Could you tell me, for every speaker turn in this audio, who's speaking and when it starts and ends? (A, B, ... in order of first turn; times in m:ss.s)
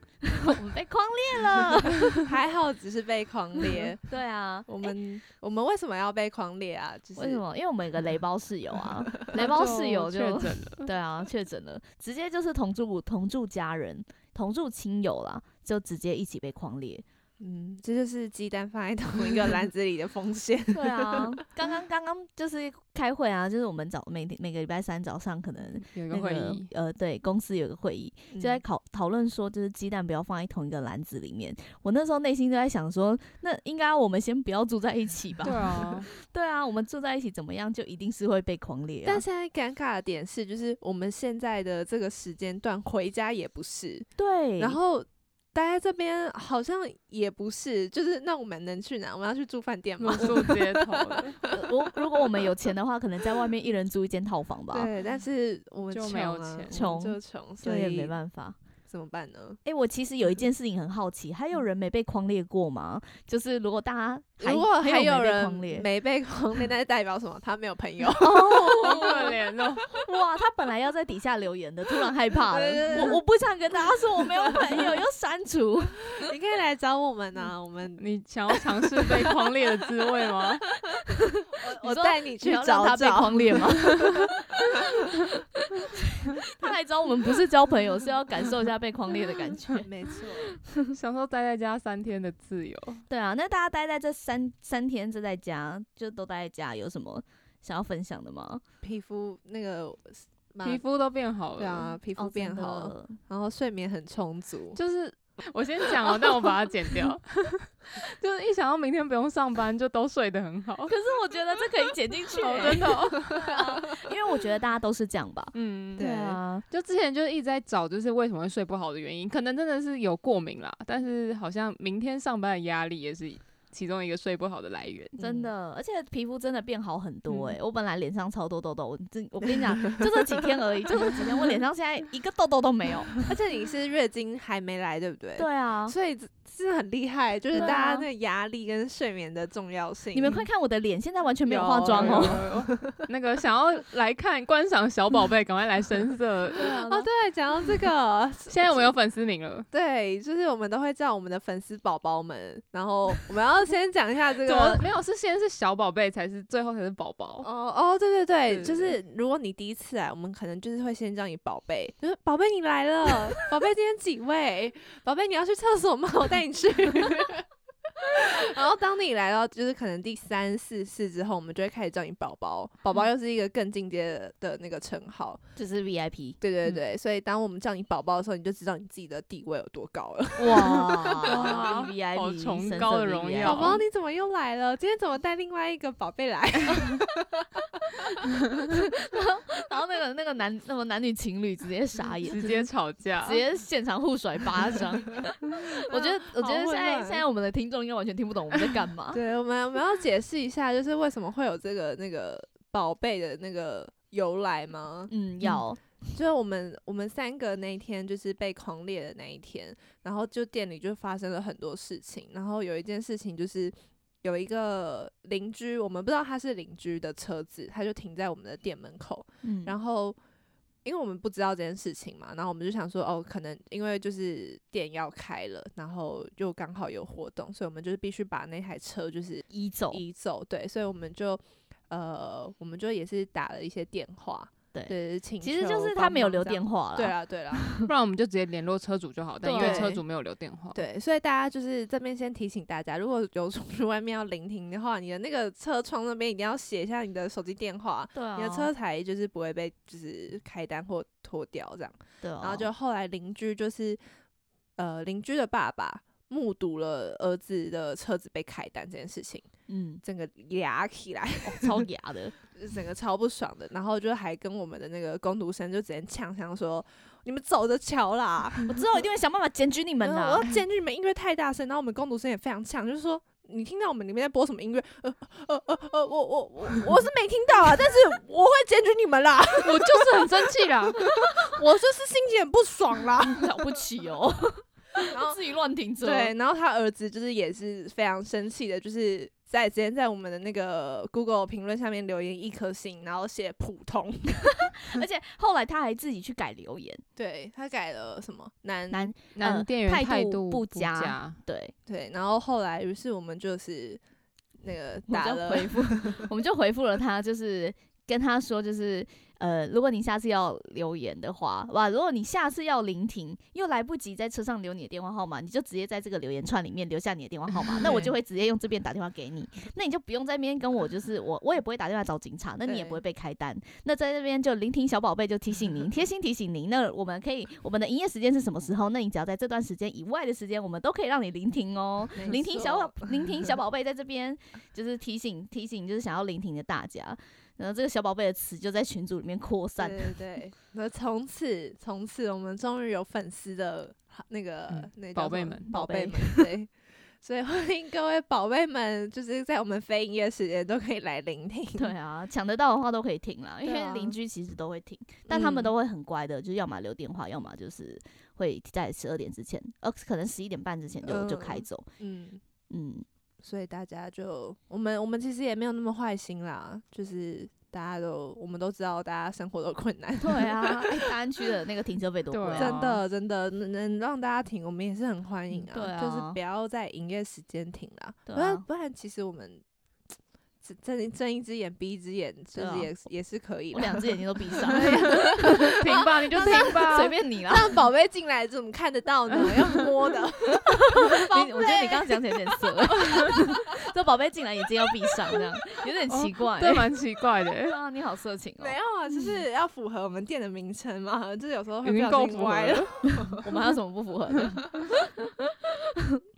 0:00.4-0:02.2 A
0:02.2-0:04.1 B
0:03.6-0:04.9 A
0:04.6-0:07.4 B
0:07.2-0:17.0 A
0:09.3-0:10.9 C
0:17.4-0:21.4 B
0:20.7-0:39.2 A
0:25.8-0:26.7 C
0:28.3-0:28.6 B
0:35.4-0:36.1 C
0:39.0-0:44.1 B
0:44.2-0:44.8 A
0:44.6-0:51.6 B
0:50.0-0:51.4 C
0:50.2-0:50.4 A
0:51.4-0:54.9 A
0:54.7-0:58.1 B
0:55.9-0:56.8 C
0:56.7-0:58.6 A
0:58.9-0:59.6 B
0:59.6-1:05.8 A
1:04.4-1:09.9 B
1:08.1-1:09.3 A
1:08.8-1:09.8 C
1:09.9-1:16.2 A
1:12.3-1:13.2 B
1:14.2-1:14.9 B
1:16.1-1:18.0 B
1:18.0-1:20.6 C
1:19.0-1:19.4 B
1:20.9-1:29.9 A
1:21.6-1:24.9 B
1:29.8-1:30.6 B
1:30.6-1:30.9 A
1:30.9-1:33.0 C
1:33.1-1:38.6 A
1:38.8-1:40.8 B
1:40.6-1:41.9 C
1:41.6-1:44.8 B
1:42.2-1:43.2 A
1:44.7-1:50.9 C
1:50.9-1:56.6 A
1:52.4-1:53.3 C
1:52.6-1:54.1 B
1:55.5-1:56.0 C
1:56.0-1:56.4 B
1:56.7-2:05.2 C
2:05.2-2:13.2 A
2:05.2-2:05.5 B
2:13.2-2:20.4 B
2:15.4-2:15.9 A
2:17.5-2:18.0 A
2:20.1-2:22.4 A
2:21.4-2:23.0 B
2:21.9-2:26.6 C
2:26.5-2:27.1 A
2:26.6-2:28.9 B
2:28.5-2:29.6 C
2:29.7-2:34.9 B
2:34.4-2:37.5 C
2:37.4-2:47.5 B
2:38.5-2:38.9 C
2:48.0-2:55.4 B
2:55.6-2:56.4 A
2:56.4-3:01.7 B
3:00.4-3:03.8 A
3:01.2-3:03.8 C
3:03.4-3:07.6 B
3:08.0-3:12.6 A
3:12.3-3:13.4 C
3:13.2-3:19.2 A
3:15.6-3:17.2 B
3:19.1-3:25.6 B
3:25.1-3:25.8 A
3:26.1-3:40.2 B
3:39.4-3:39.7 A
3:40.8-3:57.7 B
3:49.5-3:50.0 A
3:54.7-3:57.9 A
3:57.8-4:00.8 C
3:59.4-3:59.9 A
3:59.6-4:00.0 B
4:00.7-4:14.0 B
4:08.1-4:08.7 A
4:12.2-4:12.7 A
4:14.8-4:19.5 B
4:19.7-4:20.0 A
4:20.0-4:21.8 B
4:21.4-4:22.3 A
4:22.5-4:28.7 B
4:28.7-4:30.5 A
4:30.0-4:43.7 B
4:39.6-4:41.0 C
4:43.2-4:46.3 A
4:45.1-4:45.4 B
4:46.0-4:54.7 B
4:54.5-4:57.0 A
4:57.2-4:59.1 B
4:58.9-5:01.7 A
4:59.3-5:01.4 C
5:01.9-5:04.0 B
5:04.6-5:06.2 B
5:05.1-5:40.1 A
5:17.8-5:18.1 B
5:22.6-5:23.0 B
5:32.1-5:33.5 B
5:39.8-5:46.7 B
5:44.7-5:45.7 C
5:45.7-5:46.4 A
5:47.2-5:51.9 B
5:51.8-6:01.9 A
5:53.6-5:54.2 B
5:55.3-5:55.7 B
6:01.0-6:02.4 B
6:02.7-6:03.0 A
6:03.4-6:11.2 B
6:10.2-6:12.8 A
6:12.3-6:13.0 C
6:12.6-6:19.6 B
6:15.7-6:16.4 A
6:18.3-6:18.6 A
6:20.6-6:26.8 B
6:22.6-6:22.9 A
6:23.7-6:25.7 A
6:25.4-6:27.1 C
6:26.3-6:27.8 A
6:27.5-6:32.9 B
6:29.3-6:29.9 C
6:30.6-6:36.9 A
6:36.1-6:37.8 C
6:37.6-6:38.8 A
6:38.6-6:43.5 B
6:41.8-6:43.0 C
6:43.4-6:45.1 A